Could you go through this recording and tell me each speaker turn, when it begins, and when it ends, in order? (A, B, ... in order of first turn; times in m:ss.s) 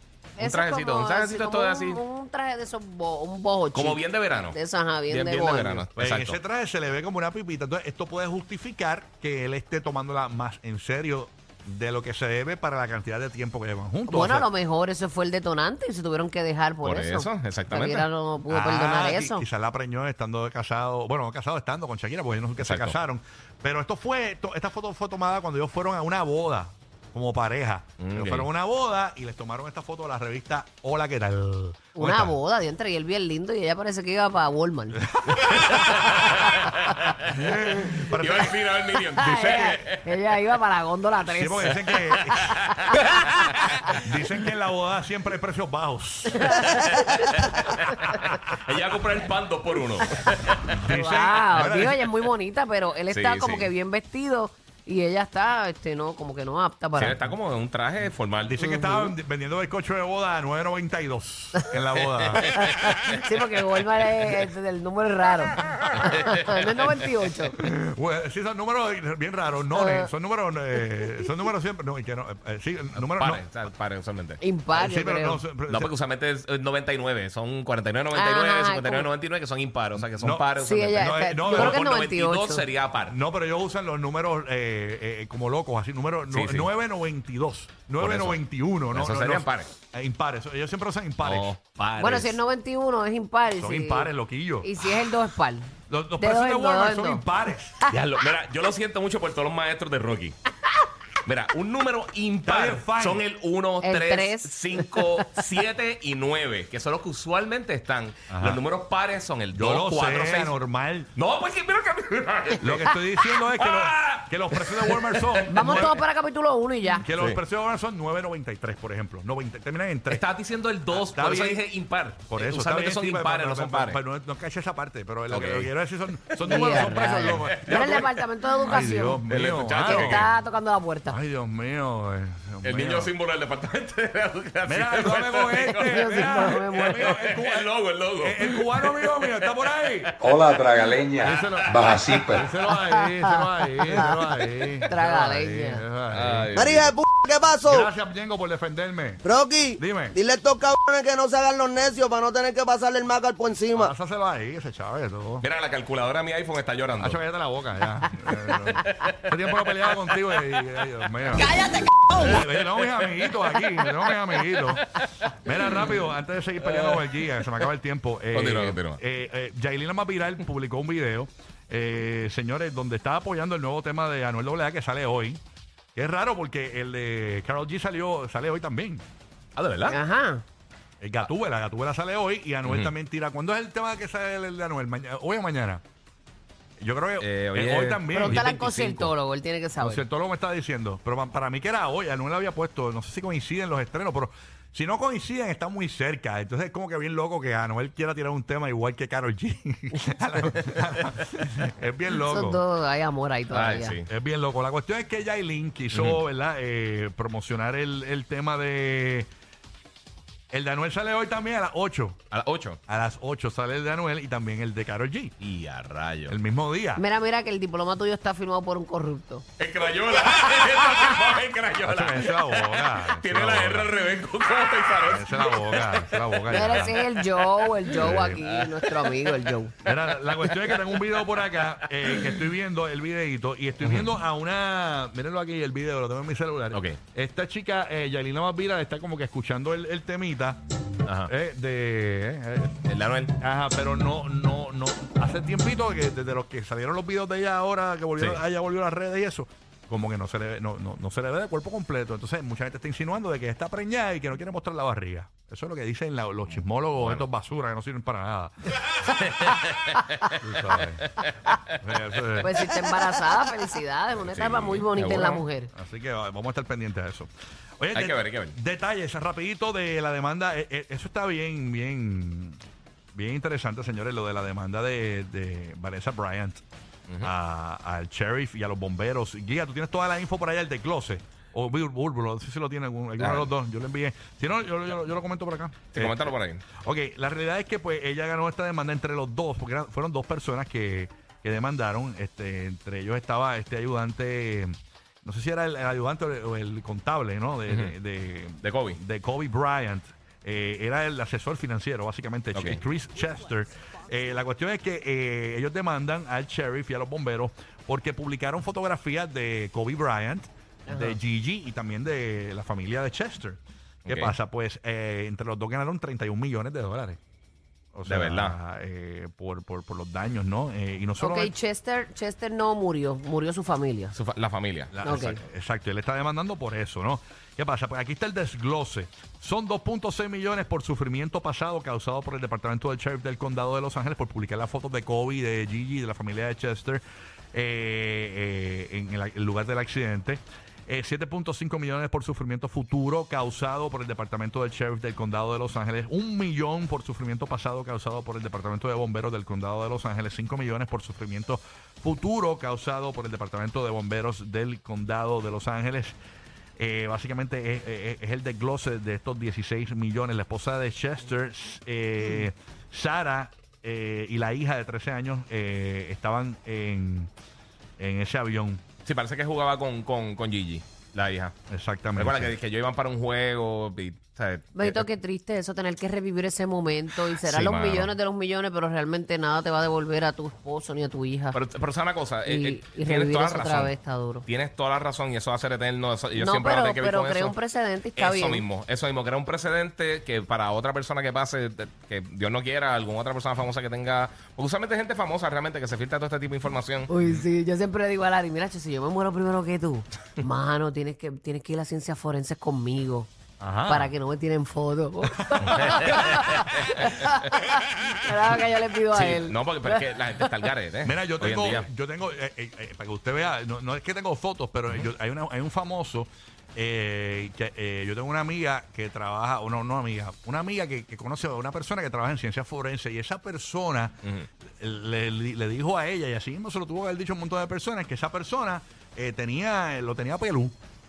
0:00.4-0:04.0 A
0:00.4-0:02.0 B
0:03.7-0:04.6 B
0:04.5-0:05.8 A
0:05.1-0:06.4 B
0:06.0-0:14.4 C
0:14.1-0:19.4 A
0:16.8-0:18.0 B
0:18.5-0:32.3 C
0:22.6-0:22.9 B
0:28.0-0:28.5 B
0:31.9-0:35.0 A
0:35.0-0:35.8 C
0:35.4-0:37.3 B
0:35.6-0:36.6 A
0:37.2-0:38.5 C
0:38.0-0:40.0 B
0:39.2-0:39.8 C
0:39.2-0:44.0 A
0:41.2-0:42.6 C
0:42.7-0:43.8 B
0:43.9-0:46.8 C
0:46.4-0:48.2 A
0:47.2-0:50.8 B
0:50.7-0:52.0 C
0:50.9-0:57.2 A
0:53.1-0:53.7 B
0:57.0-0:58.5 B
0:58.4-1:02.6 C
0:58.6-0:59.1 A
1:02.5-1:07.6 A
1:06.0-1:06.8 B
1:07.6-1:13.4 C
1:09.7-1:10.1 A
1:13.1-1:14.4 B
1:14.4-1:15.4 A
1:14.7-1:15.9 C
1:15.7-1:23.2 B
1:18.1-1:19.1 A
1:20.0-1:20.4 C
1:20.6-1:22.6 A
1:21.0-1:21.9 C
1:23.1-1:31.5 C
1:26.3-1:26.7 B
1:28.0-1:28.4 B
1:28.9-1:29.7 B
1:31.2-1:32.4 B
1:32.0-1:34.1 A
1:33.6-1:34.7 C
1:34.6-1:37.2 A
1:35.9-1:37.8 C
1:37.9-1:40.4 B
1:41.2-1:50.5 B
1:42.4-1:43.2 C
1:43.8-1:45.0 A
1:48.3-1:48.6 C
1:49.5-1:51.1 C
1:51.2-1:55.9 B
1:52.6-1:55.9 C
1:55.5-1:57.0 A
1:57.0-2:00.2 C
2:00.1-2:04.0 B
2:00.9-2:01.6 C
2:02.3-2:10.3 C
2:05.3-2:05.7 B
2:06.3-2:08.0 B
2:06.4-2:09.2 A
2:09.3-2:10.2 B
2:09.8-2:11.2 A
2:11.1-2:13.1 C
2:12.6-2:20.1 B
2:14.6-2:20.1 C
2:15.8-2:17.1 A
2:20.2-2:22.4 D
2:21.2-2:26.6 C
2:21.5-2:22.0 B
2:22.9-2:24.2 A
2:24.9-2:25.8 A
2:26.1-2:26.9 B
2:26.5-2:27.9 E
2:27.6-2:29.2 C
2:29.2-2:33.9 E
2:29.8-2:30.1 C
2:33.7-2:35.4 C
2:35.4-2:37.2 B
2:37.0-2:41.6 C
2:38.8-2:40.6 B
2:42.1-2:55.4 C
2:44.6-2:45.3 B
2:46.7-2:47.4 B
2:48.3-2:49.0 B
2:55.9-2:59.0 C
2:59.6-3:00.0 B
2:59.9-3:00.4 A
3:01.0-3:05.8 C
3:02.6-3:02.9 B
3:06.8-3:08.5 C
3:07.2-3:09.1 B
3:08.1-3:10.0 A
3:09.8-3:22.6 C
3:22.1-3:24.0 A
3:23.5-3:24.1 B
3:24.1-3:29.3 C
3:25.9-3:26.2 B
3:30.5-3:32.2 C
3:32.3-3:32.8 B
3:32.9-3:35.3 C
3:35.4-3:36.4 B
3:36.3-3:37.0 C
3:37.0-3:39.4 A
3:39.6-3:52.4 B
3:40.3-3:40.6 A
3:41.8-3:43.9 C
3:45.0-3:46.9 C
3:46.5-3:49.7 A
3:48.0-3:48.4 C
3:49.8-4:00.6 C
3:53.8-3:54.1 B
3:56.7-3:57.0 B
4:01.0-4:01.3 B
4:01.3-4:02.8 C
4:02.9-4:03.3 B
4:03.4-4:19.1 C
4:17.0-4:17.2 B
4:18.9-4:20.5 B
4:20.4-4:21.1 C
4:21.2-4:21.8 B
4:21.7-4:22.6 C
4:22.4-4:25.7 A
4:24.3-4:25.4 B
4:25.7-4:32.6 C
4:27.9-4:28.6 B
4:33.1-4:36.6 C
4:37.2-5:17.2 C
4:43.2-4:43.5 B
4:45.9-4:46.6 B
4:57.7-4:57.9 B
4:58.6-4:59.0 B
5:02.5-5:02.8 B
5:10.9-5:11.2 A
5:14.0-5:14.3 B
5:17.9-5:21.5 C
5:18.0-5:18.5 B
5:21.2-5:24.1 A
5:24.1-5:25.0 B
5:24.9-5:56.2 C
5:25.0-5:25.4 A
5:56.8-6:07.3 C
6:08.0-6:08.8 C
6:09.0-6:11.5 B
6:11.7-6:12.5 C
6:12.2-6:15.0 B
6:14.7-6:21.6 A
6:17.4-6:18.1 B
6:21.5-6:23.9 B
6:22.4-6:24.4 A
6:24.4-6:27.5 B
6:26.4-6:28.6 A
6:28.2-6:37.4 B
6:37.1-6:43.3 A
6:43.6-6:44.1 C
6:43.9-6:50.5 A
6:45.3-6:46.2 C
6:45.6-6:46.9 B
6:49.1-6:51.8 B
6:51.0-7:04.2 C
7:04.2-7:04.5 B
7:04.7-7:10.8 C